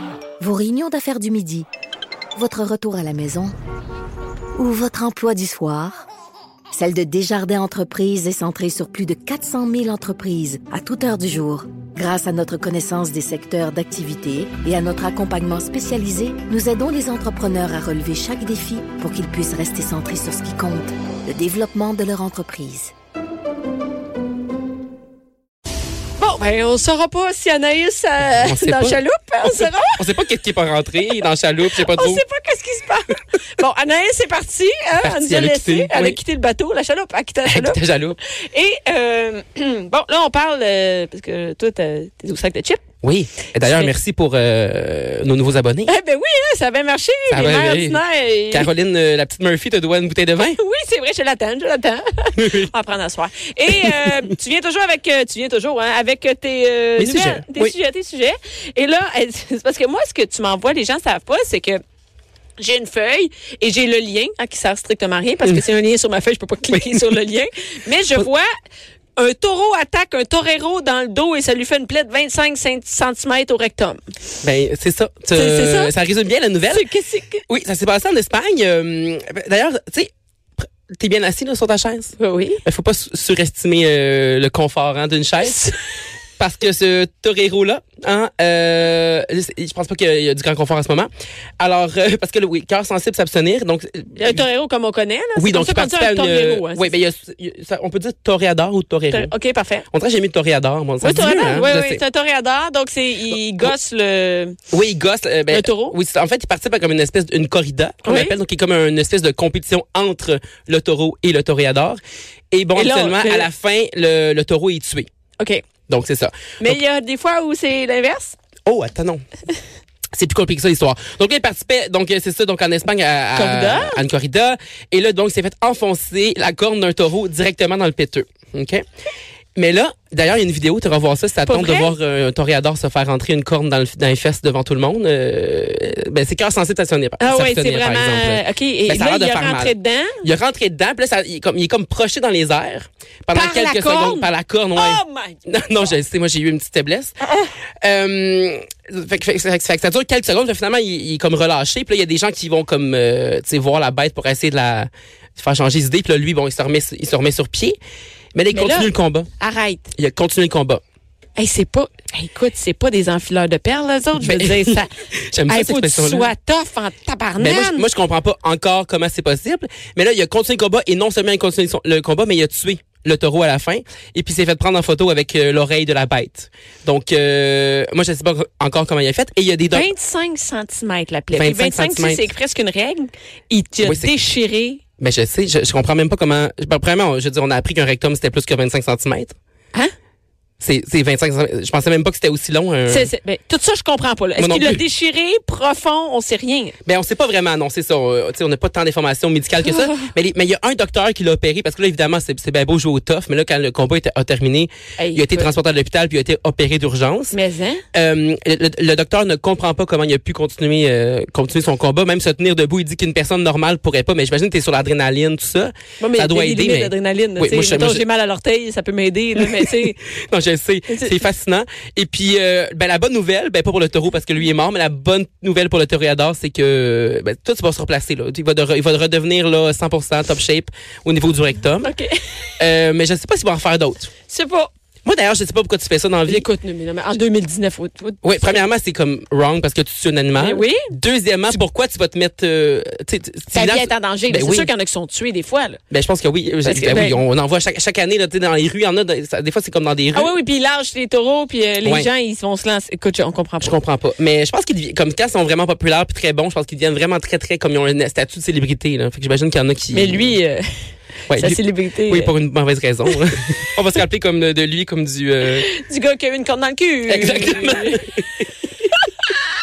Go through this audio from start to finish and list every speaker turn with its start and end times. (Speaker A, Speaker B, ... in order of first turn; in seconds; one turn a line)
Speaker A: 0.4-1.7
Speaker A: 2.3-3.5
Speaker A: 4.6-6.1
Speaker A: 6.7-22.9
Speaker B: 26.2-30.1
Speaker C: 28.4-32.2
Speaker B: 31.7-42.8
Speaker C: 35.0-36.2
Speaker C: 37.5-38.2
Speaker C: 43.0-45.9
Speaker B: 43.6-43.9
Speaker B: 45.9-48.7
Speaker C: 47.3-50.6
Speaker B: 50.5-61.8
Speaker C: 52.4-52.7
Speaker C: 57.0-57.7
Speaker B: 62.6-68.5
Speaker C: 66.7-67.0
Speaker B: 69.2-74.0
Speaker C: 74.4-76.9
Speaker B: 75.3-75.9
Speaker B: 76.7-77.4
Speaker C: 77.5-80.1
Speaker C: 80.6-85.7
Speaker B: 82.2-82.6
Speaker C: 86.4-94.4
Speaker B: 94.2-96.9
Speaker C: 95.4-99.3
Speaker B: 99.1-99.8
Speaker C: 99.9-102.0
Speaker B: 101.0-104.5
Speaker C: 104.7-115.1
Speaker B: 105.5-106.0
Speaker B: 108.0-108.3
Speaker B: 112.7-113.5
Speaker C: 115.9-116.8
Speaker B: 116.6-118.4
Speaker C: 118.7-119.2
Speaker C: 120.1-128.8
Speaker B: 123.3-124.0
Speaker C: 129.6-147.2
Speaker B: 131.4-131.9
Speaker B: 137.2-140.3
Speaker B: 143.3-145.7
Speaker C: 147.8-157.8
Speaker C: 158.3-159.3
Speaker B: 158.5-159.9
Speaker C: 159.9-160.8
Speaker B: 161.4-164.9
Speaker C: 164.2-166.3
Speaker B: 165.5-167.9
Speaker C: 167.4-179.9
Speaker B: 179.7-184.8
Speaker C: 181.3-182.3
Speaker C: 183.8-184.1
Speaker C: 185.0-189.4
Speaker C: 190.6-193.1
Speaker B: 192.9-196.8
Speaker C: 194.4-194.8
Speaker C: 196.9-207.4
Speaker B: 199.7-200.1
Speaker B: 205.0-205.5
Speaker B: 207.3-207.8
Speaker C: 207.9-218.1
Speaker B: 216.0-220.0
Speaker C: 219.4-231.9
Speaker B: 220.9-221.2
Speaker B: 231.8-232.2
Speaker C: 232.6-234.1
Speaker B: 234.3-234.7
Speaker C: 235.1-236.5
Speaker B: 236.3-238.6
Speaker C: 238.2-244.7
Speaker B: 240.4-240.9
Speaker B: 243.5-245.8
Speaker C: 245.9-250.3
Speaker B: 246.7-247.2
Speaker B: 250.2-253.8
Speaker C: 251.8-252.1
Speaker C: 253.6-260.4
Speaker B: 259.9-260.6
Speaker C: 261.3-265.7
Speaker B: 261.3-262.3
Speaker B: 265.6-268.1
Speaker C: 267.1-268.5